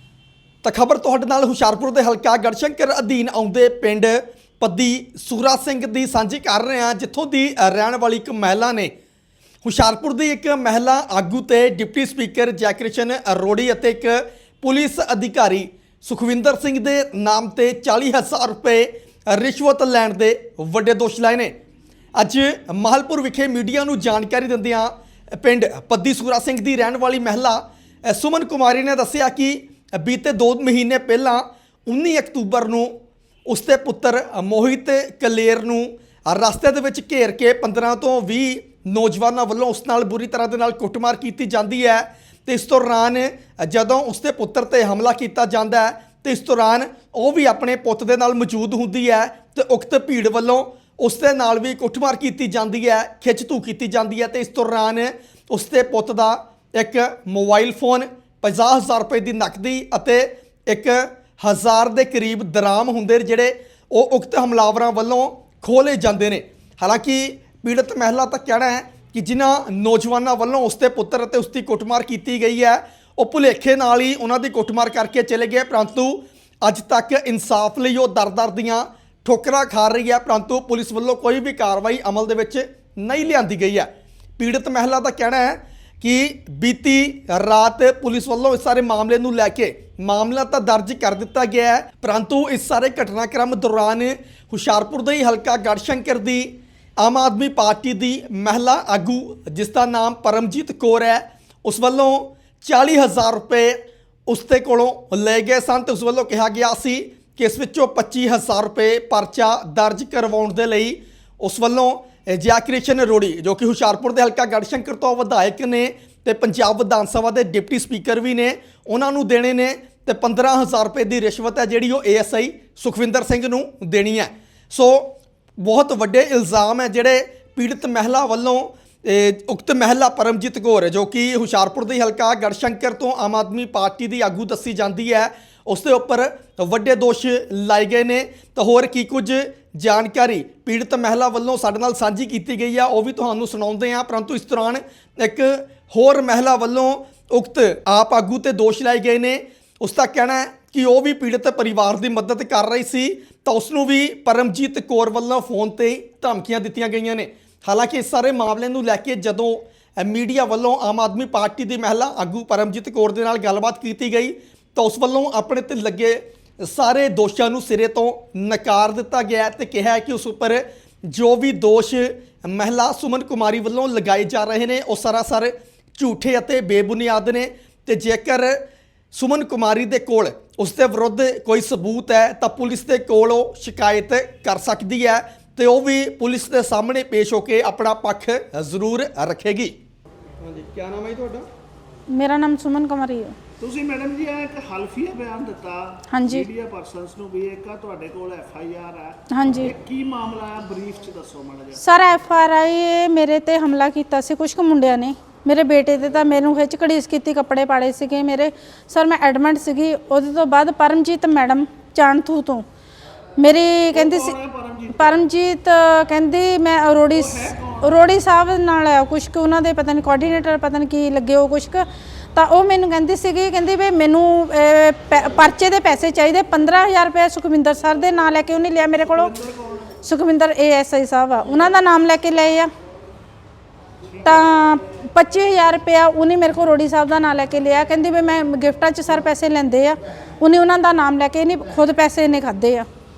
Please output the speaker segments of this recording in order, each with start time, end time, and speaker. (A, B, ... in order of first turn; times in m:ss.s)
0:00.6-0:08.9 A
0:09.6-0:21.5 A
0:22.2-0:32.9 A
0:33.5-2:58.6 A
2:59.1-3:09.7 A
3:10.4-3:11.4 A
3:12.1-3:13.4 B
3:13.6-3:21.8 C
3:16.1-3:16.5 B
3:19.3-3:19.7 B
3:21.8-3:32.6 B
3:33.4-3:34.4 B
3:33.9-3:35.2 C
3:34.9-3:41.8 B
3:37.2-3:38.0 C
3:42.3-3:49.3 B
3:49.0-3:49.9 C
3:50.0-3:52.7 B
3:51.5-3:51.8 C
3:54.0-3:54.5 C
3:54.2-4:02.8 B